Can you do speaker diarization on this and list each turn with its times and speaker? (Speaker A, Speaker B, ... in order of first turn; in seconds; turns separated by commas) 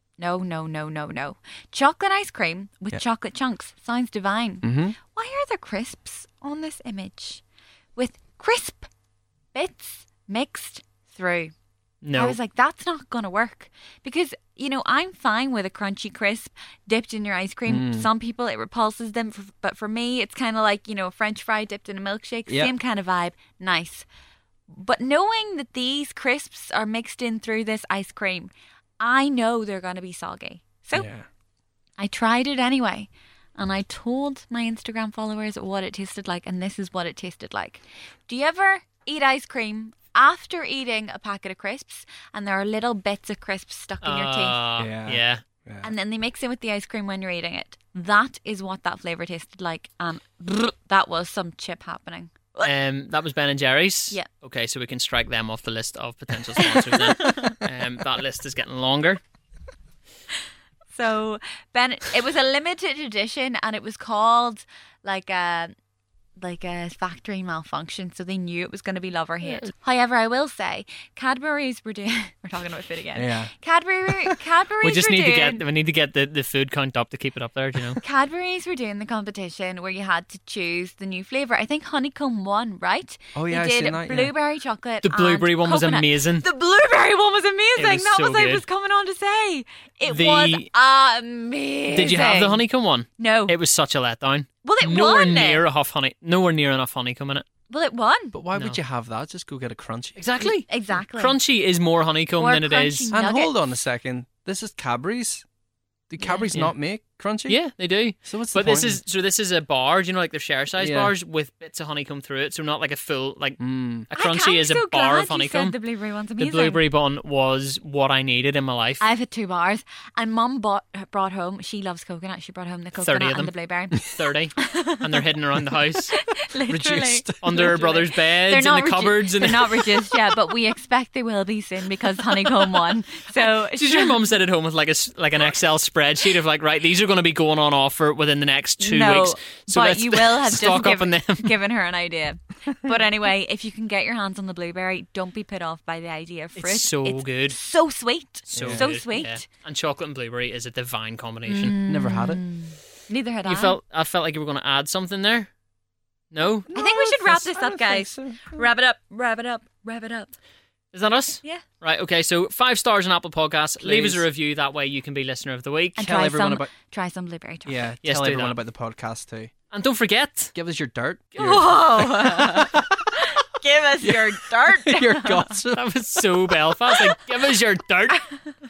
Speaker A: 0.2-7.4, Speaker B: 4.6-5.0, Speaker A: 8.0-8.9, Speaker A: 9.6-11.5, Speaker C: 12.0-12.4, Speaker A: 12.2-24.1, Speaker B: 17.7-18.1, Speaker B: 22.5-22.7, Speaker A: 24.7-31.1, Speaker B: 30.9-31.3, Speaker A: 32.0-44.6, Speaker C: 44.0-45.4, Speaker B: 44.8-45.9, Speaker A: 45.8-52.7, Speaker C: 52.6-59.2, Speaker A: 56.9-57.6, Speaker A: 60.9-65.7, Speaker A: 66.4-75.6, Speaker B: 73.2-73.5, Speaker C: 74.8-78.0, Speaker A: 78.0-92.6, Speaker B: 83.3-84.3, Speaker C: 85.0-86.5, Speaker C: 87.8-88.6, Speaker C: 90.1-90.7, Speaker C: 91.9-97.5, Speaker A: 93.2-93.6, Speaker A: 94.6-95.6, Speaker A: 97.7-98.4, Speaker B: 98.3-100.3, Speaker C: 98.5-98.8, Speaker C: 100.2-103.1, Speaker A: 100.4-101.4, Speaker A: 102.4-103.6, Speaker B: 103.1-105.5, Speaker B: 106.1-107.6, Speaker A: 106.2-106.5, Speaker C: 107.5-115.8, Speaker B: 108.2-109.0, Speaker B: 110.8-111.1, Speaker B: 113.6-114.1, Speaker A: 114.1-116.8, Speaker C: 116.4-119.0, Speaker A: 119.0-125.2, Speaker C: 123.0-126.1, Speaker A: 126.1-134.2, Speaker B: 126.7-127.8, Speaker C: 127.4-129.9, Speaker C: 133.4-141.5, Speaker A: 138.8-149.4, Speaker C: 146.6-147.6, Speaker B: 148.5-148.8, Speaker C: 148.5-151.8, Speaker A: 151.5-153.8, Speaker B: 151.9-152.4, Speaker C: 153.4-155.5, Speaker C: 156.3-156.7, Speaker B: 156.7-158.7, Speaker A: 156.7-160.4, Speaker C: 160.9-166.0, Speaker B: 163.8-164.2, Speaker A: 166.0-167.9, Speaker B: 166.0-166.7, Speaker B: 167.7-169.5, Speaker C: 168.0-168.6, Speaker C: 169.7-170.5, Speaker B: 170.5-173.2, Speaker C: 171.4-171.6, Speaker A: 171.4-175.6, Speaker B: 174.0-175.9, Speaker C: 175.7-178.2